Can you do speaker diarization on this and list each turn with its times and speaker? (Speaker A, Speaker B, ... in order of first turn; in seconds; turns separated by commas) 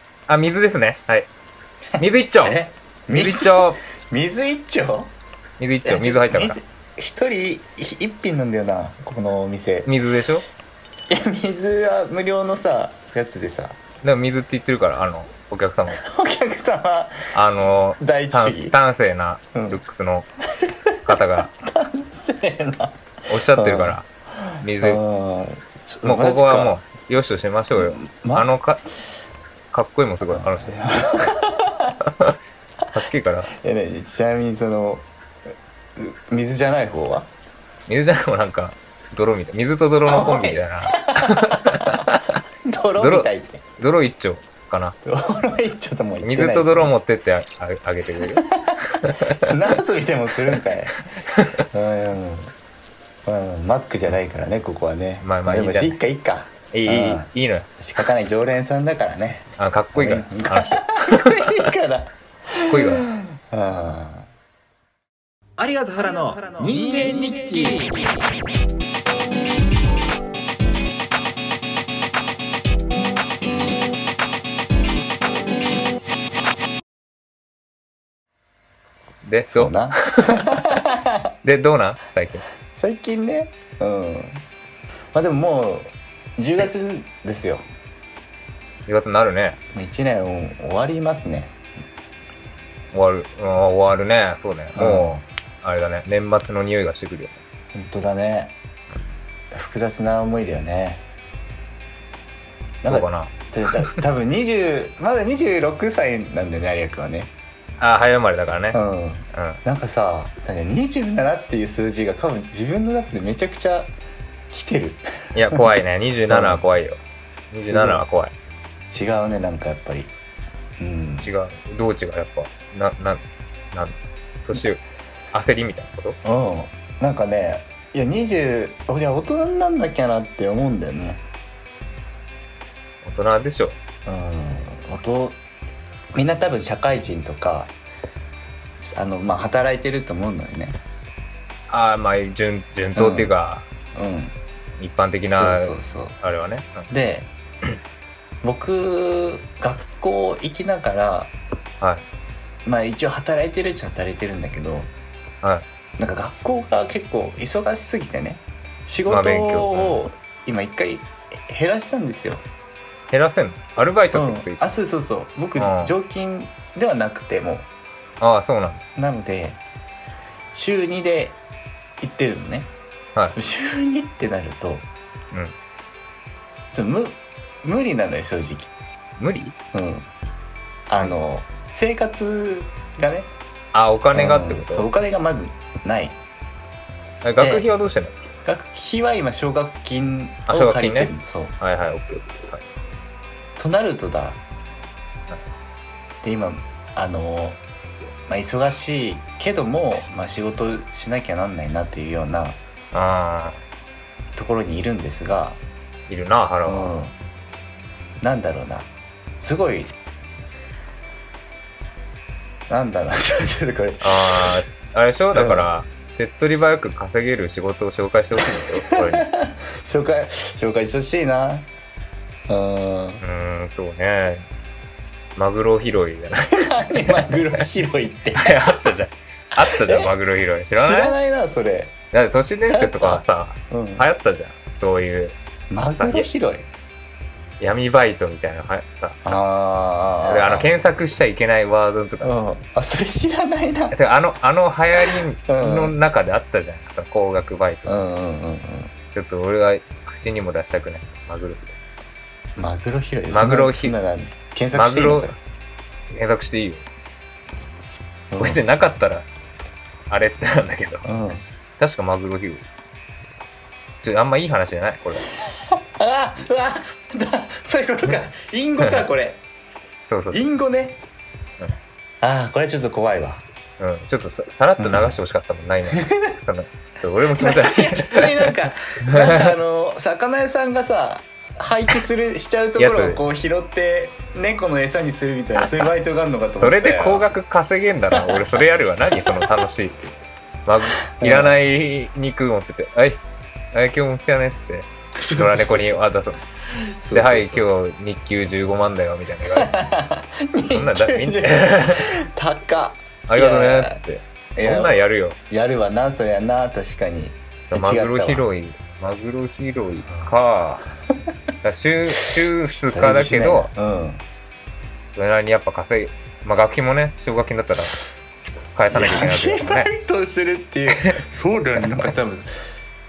Speaker A: 0.3-1.3, Speaker A: 2.0-3.8, Speaker B: 2.0-5.1, Speaker A: 5.6-6.6, Speaker B: 5.8-9.9, Speaker A: 9.8-10.4, Speaker B: 11.1-13.8, Speaker A: 14.0-16.0, Speaker B: 15.9-17.3, Speaker A: 17.3-20.3, Speaker B: 18.0-18.8, Speaker B: 19.5-19.8, Speaker B: 20.5-21.1, Speaker A: 21.0-21.5, Speaker B: 21.6-26.8, Speaker A: 23.3-24.1, Speaker A: 24.6-25.0, Speaker A: 26.0-28.8, Speaker B: 27.7-28.5, Speaker A: 29.7-31.3, Speaker B: 30.3-32.0, Speaker A: 32.0-32.4, Speaker A: 32.9-33.5, Speaker B: 33.5-35.1, Speaker B: 36.0-37.3, Speaker A: 37.9-42.4, Speaker B: 40.0-43.6, Speaker A: 43.0-43.3, Speaker A: 43.8-45.0, Speaker B: 45.0-46.9, Speaker A: 46.2-49.7, Speaker B: 48.3-51.0, Speaker A: 51.2-51.7, Speaker B: 51.6-52.5, Speaker B: 53.2-64.3, Speaker A: 55.2-56.0, Speaker A: 56.7-57.7, Speaker A: 59.6-61.7, Speaker A: 62.7-63.1, Speaker C: 65.6-68.0, Speaker B: 66.5-67.9, Speaker A: 79.2-80.8, Speaker B: 79.5-81.3, Speaker A: 81.4-82.5, Speaker B: 82.8-84.4, Speaker B: 85.1-87.7, Speaker A: 88.9-89.6, Speaker B: 89.7-91.5, Speaker A: 92.9-97.4, Speaker B: 94.7-95.2, Speaker B: 97.7-98.5, Speaker B: 99.5-101.0, Speaker B: 102.8-107.3, Speaker A: 102.8-104.0, Speaker A: 107.8-108.8, Speaker B: 108.7-113.9, Speaker A: 109.3-109.6, Speaker B: 114.5-115.6, Speaker A: 115.3-118.3, Speaker B: 116.3-116.6, Speaker B: 117.6-118.0, Speaker B: 118.9-120.1, Speaker B: 120.8-121.3, Speaker A: 121.2-124.8, Speaker A: 125.3-126.2, Speaker B: 126.2-131.2, Speaker A: 133.0-133.8, Speaker B: 134.1-135.4, Speaker B: 136.1-137.7, Speaker B: 138.8-140.8, Speaker A: 141.7-143.7, Speaker B: 142.9-143.3, Speaker B: 143.9-144.3, Speaker A: 144.8-146.9, Speaker B: 145.2-146.2, Speaker B: 146.9-147.3, Speaker B: 148.4-151.3, Speaker B: 152.6-154.9, Speaker B: 156.0-162.4, Speaker A: 159.1-160.0, Speaker A: 163.1-164.6, Speaker B: 164.1-167.7, Speaker A: 165.6-165.9, Speaker A: 168.2-168.8, Speaker B: 168.9-169.6, Speaker B: 170.5-171.4, Speaker B: 172.0-172.7, Speaker B: 173.3-174.9, Speaker B: 176.7-178.7, Speaker A: 179.2-179.5, Speaker B: 179.7-180.1, Speaker B: 180.9-183.3, Speaker A: 183.7-184.9, Speaker B: 184.1-186.2, Speaker A: 187.2-188.3, Speaker B: 187.4-187.7, Speaker B: 188.4-191.6, Speaker A: 190.5-192.6, Speaker B: 193.6-194.4, Speaker B: 196.2-197.6, Speaker B: 198.3-202.6, Speaker A: 202.9-203.6, Speaker B: 204.3-205.6, Speaker A: 206.1-206.9, Speaker B: 206.7-207.1, Speaker B: 208.2-209.9, Speaker B: 212.7-214.5, Speaker A: 214.0-219.3, Speaker B: 215.3-215.7, Speaker B: 218.5-221.7, Speaker B: 222.5-223.2, Speaker A: 223.2-224.5, Speaker A: 225.3-227.6, Speaker B: 226.5-228.9, Speaker A: 228.3-231.3, Speaker B: 229.5-230.1, Speaker B: 230.7-231.9, Speaker A: 232.1-235.3, Speaker B: 232.7-234.1, Speaker B: 235.7-236.7, Speaker A: 235.9-236.3, Speaker A: 237.6-239.3, Speaker B: 239.2-240.7, Speaker A: 240.2-242.4, Speaker B: 242.2-243.9, Speaker A: 243.9-248.0, Speaker B: 245.1-245.9, Speaker B: 247.9-248.9, Speaker A: 249.1-251.8, Speaker B: 252.6-255.3, Speaker A: 253.3-253.9, Speaker A: 254.7-255.3, Speaker A: 256.1-256.8, Speaker B: 258.3-258.6, Speaker A: 258.4-259.2, Speaker A: 260.1-261.1, Speaker B: 261.1-261.4, Speaker A: 261.8-262.6, Speaker A: 264.0-265.3, Speaker B: 265.5-269.4, Speaker A: 270.1-270.5, Speaker B: 270.3-271.0, Speaker B: 272.2-273.4, Speaker A: 273.8-279.5, Speaker B: 274.8-275.1, Speaker B: 277.3-287.3, Speaker A: 282.8-283.2, Speaker A: 286.4-290.1, Speaker B: 288.1-288.4, Speaker A: 290.6-293.2, Speaker B: 291.2-291.5, Speaker A: 293.7-296.4, Speaker B: 295.2-296.0, Speaker B: 296.6-297.7, Speaker A: 297.1-299.8, Speaker B: 299.5-304.0, Speaker A: 300.6-302.2, Speaker A: 303.3-305.4, Speaker B: 304.6-305.0, Speaker B: 305.5-308.4, Speaker A: 307.7-310.9, Speaker A: 311.6-313.7, Speaker B: 312.7-314.2, Speaker A: 315.1-318.0, Speaker A: 318.7-319.9, Speaker B: 318.9-322.6, Speaker A: 320.9-321.2, Speaker A: 321.8-322.1